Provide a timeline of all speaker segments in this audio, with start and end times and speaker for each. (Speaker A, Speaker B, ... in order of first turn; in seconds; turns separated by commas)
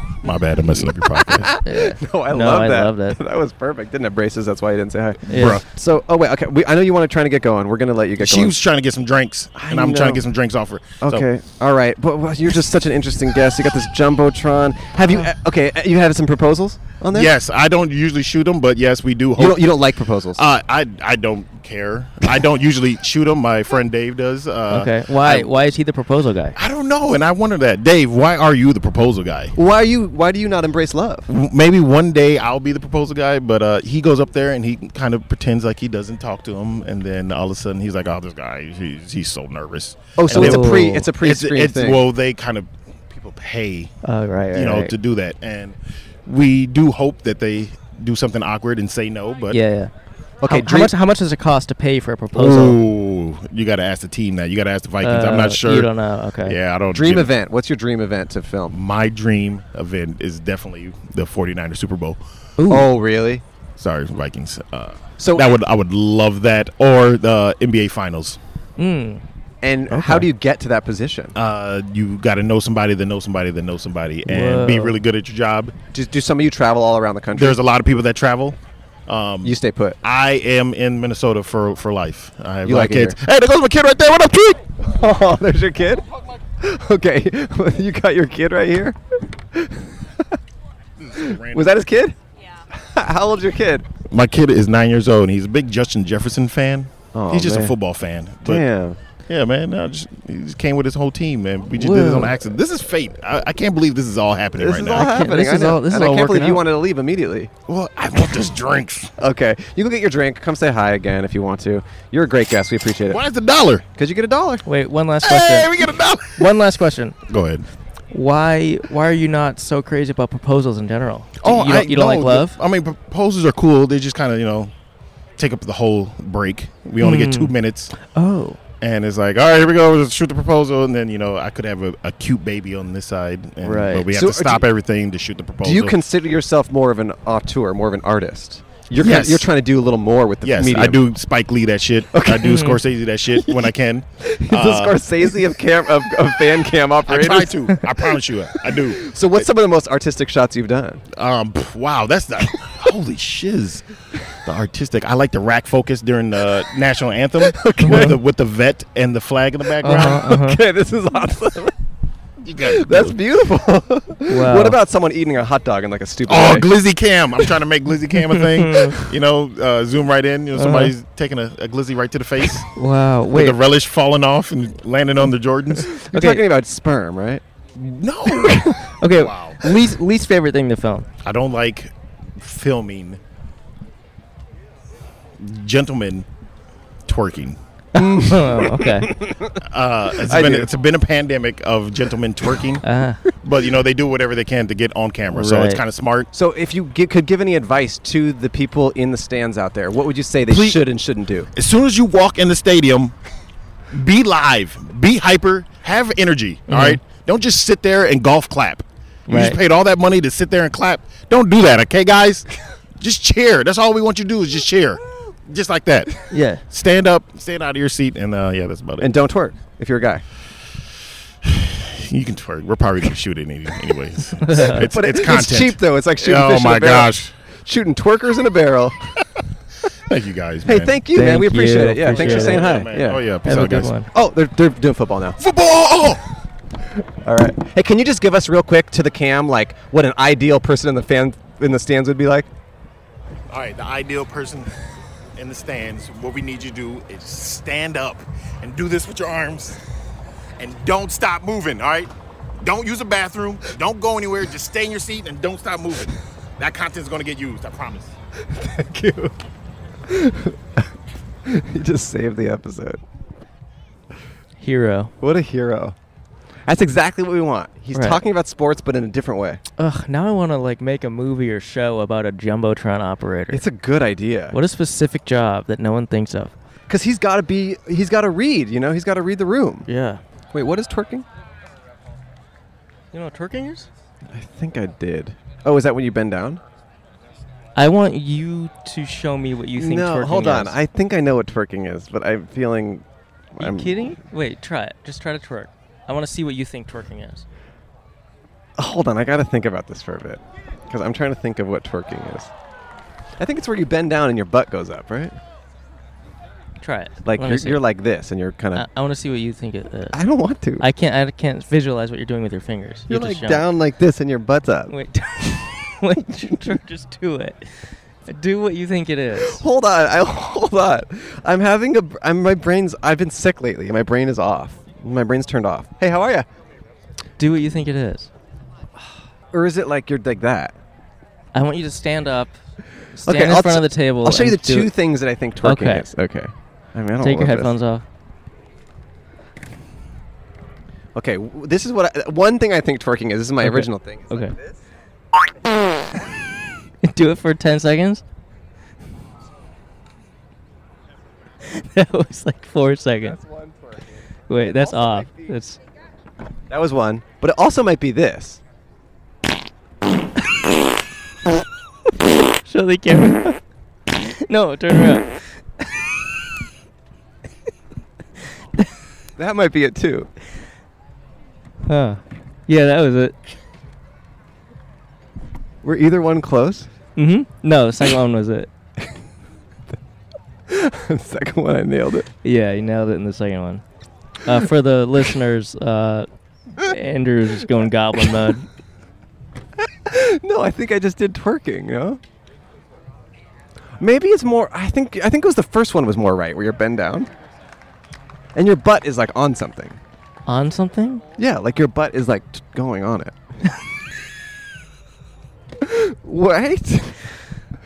Speaker A: 0.2-1.5, Speaker B: 0.7-8.6, Speaker C: 1.6-3.2, Speaker C: 5.3-5.6, Speaker A: 5.3-5.7, Speaker A: 8.2-11.3, Speaker B: 9.7-10.2, Speaker B: 11.0-17.3, Speaker A: 17.1-19.8, Speaker B: 19.4-20.4, Speaker A: 20.4-25.5, Speaker C: 24.7-26.6, Speaker A: 26.6-29.6, Speaker B: 29.6-31.3, Speaker A: 31.3-43.9, Speaker B: 40.2-42.1, Speaker C: 40.3-41.1, Speaker C: 44.0-45.0, Speaker A: 44.5-49.6, Speaker C: 49.5-49.9, Speaker B: 50.4-50.9, Speaker C: 50.5-52.8, Speaker A: 52.3-55.9, Speaker C: 55.0-56.6, Speaker A: 56.4-57.3, Speaker B: 56.9-58.8, Speaker A: 58.7-62.2, Speaker C: 62.6-62.9, Speaker B: 62.7-63.4, Speaker A: 63.8-68.4, Speaker B: 65.2-65.5, Speaker C: 68.8-69.2, Speaker B: 69.6-71.4, Speaker C: 69.9-70.3, Speaker A: 71.3-75.8, Speaker C: 74.3-75.0, Speaker B: 75.9-77.6, Speaker A: 77.3-84.6, Speaker B: 79.4-80.0, Speaker B: 82.6-83.2, Speaker B: 84.8-86.0, Speaker B: 86.6-90.4, Speaker A: 91.0-91.7, Speaker B: 91.2-92.2, Speaker B: 92.7-93.9, Speaker A: 94.1-98.6, Speaker B: 97.1-97.8, Speaker B: 98.4-99.0, Speaker A: 99.3-105.1, Speaker C: 101.8-102.3, Speaker B: 104.6-107.5, Speaker C: 104.9-106.7, Speaker A: 107.7-109.1, Speaker B: 109.2-113.2, Speaker A: 113.1-113.9, Speaker B: 114.0-114.7, Speaker C: 114.7-117.2, Speaker A: 115.2-116.5, Speaker A: 117.3-117.7, Speaker C: 118.1-122.6, Speaker A: 121.4-124.7, Speaker A: 125.4-128.0, Speaker C: 127.0-128.6, Speaker A: 128.8-136.0, Speaker C: 133.6-134.1, Speaker B: 134.1-134.7, Speaker B: 135.6-141.1, Speaker A: 139.0-139.5, Speaker A: 140.4-145.1, Speaker B: 142.1-142.6, Speaker C: 142.4-142.8, Speaker B: 143.3-151.0, Speaker A: 147.1-149.2, Speaker A: 151.2-160.4, Speaker B: 157.4-158.2, Speaker C: 157.8-158.2, Speaker C: 159.8-160.6, Speaker B: 159.8-161.8, Speaker A: 162.4-163.2, Speaker B: 162.6-166.7, Speaker C: 164.3-164.8, Speaker A: 166.3-172.7, Speaker C: 168.4-169.0, Speaker C: 170.6-170.9, Speaker C: 172.7-173.6, Speaker A: 173.3-176.0, Speaker B: 175.8-177.4, Speaker C: 176.1-176.4, Speaker A: 177.8-179.6, Speaker B: 178.3-178.6, Speaker C: 178.8-181.1, Speaker A: 181.2-183.2, Speaker A: 185.4-186.3, Speaker A: 187.1-187.6, Speaker C: 187.9-189.2, Speaker B: 188.0-190.7, Speaker A: 189.6-196.3, Speaker C: 192.8-193.2, Speaker C: 195.3-195.8, Speaker B: 196.3-201.5, Speaker A: 200.5-200.8, Speaker A: 201.6-203.2, Speaker A: 203.9-219.2, Speaker C: 206.7-207.0, Speaker C: 209.3-209.6, Speaker C: 216.3-216.6, Speaker B: 219.0-220.2, Speaker A: 221.4-227.3, Speaker C: 224.4-224.9, Speaker B: 224.7-229.1, Speaker A: 230.1-231.0, Speaker B: 230.7-235.4, Speaker C: 231.1-232.8, Speaker A: 232.1-233.9, Speaker C: 233.4-234.1, Speaker A: 235.4-236.2, Speaker B: 237.1-242.5, Speaker A: 243.5-244.7, Speaker A: 245.4-249.8, Speaker A: 250.6-258.1, Speaker B: 258.4-259.4, Speaker B: 260.1-260.9, Speaker B: 261.4-263.0, Speaker C: 264.6-265.1, Speaker B: 265.2-266.0, Speaker B: 266.7-269.6, Speaker C: 267.9-268.2, Speaker C: 269.8-273.6, Speaker B: 273.5-274.6, Speaker C: 274.5-276.5, Speaker B: 276.9-279.9, Speaker C: 279.9-280.2, Speaker B: 280.5-281.3, Speaker C: 283.1-283.9, Speaker B: 284.3-286.6, Speaker C: 287.8-290.8, Speaker B: 289.8-294.0, Speaker C: 293.6-297.4, Speaker B: 298.8-302.5, Speaker B: 303.4-305.4, Speaker C: 306.8-307.8, Speaker B: 307.2-308.9, Speaker C: 308.8-310.2, Speaker B: 310.1-310.9, Speaker C: 310.8-313.7, Speaker B: 313.1-314.9, Speaker C: 314.9-319.6, Speaker B: 319.4-326.5, Speaker C: 327.4-328.3, Speaker B: 329.0-330.8, Speaker C: 331.5-332.6, Speaker C: 333.1-334.9, Speaker B: 333.2-337.8, Speaker C: 335.6-336.1, Speaker C: 337.2-338.1, Speaker B: 341.1-344.8, Speaker C: 343.6-344.5, Speaker C: 347.0-348.2, Speaker C: 351.6-353.4, Speaker B: 353.2-355.6, Speaker C: 354.5-355.8, Speaker B: 356.7-358.6, Speaker C: 362.6-366.0, Speaker B: 369.4-370.3, Speaker C: 371.9-373.4, Speaker B: 375.8-376.9, Speaker C: 377.2-378.7, Speaker B: 380.7-382.3, Speaker C: 382.4-383.8, Speaker C: 384.4-388.7, Speaker B: 389.8-392.2, Speaker B: 394.0-397.3, Speaker B: 398.6-400.0, Speaker C: 400.5-401.2, Speaker B: 401.4-403.4, Speaker B: 405.8-407.6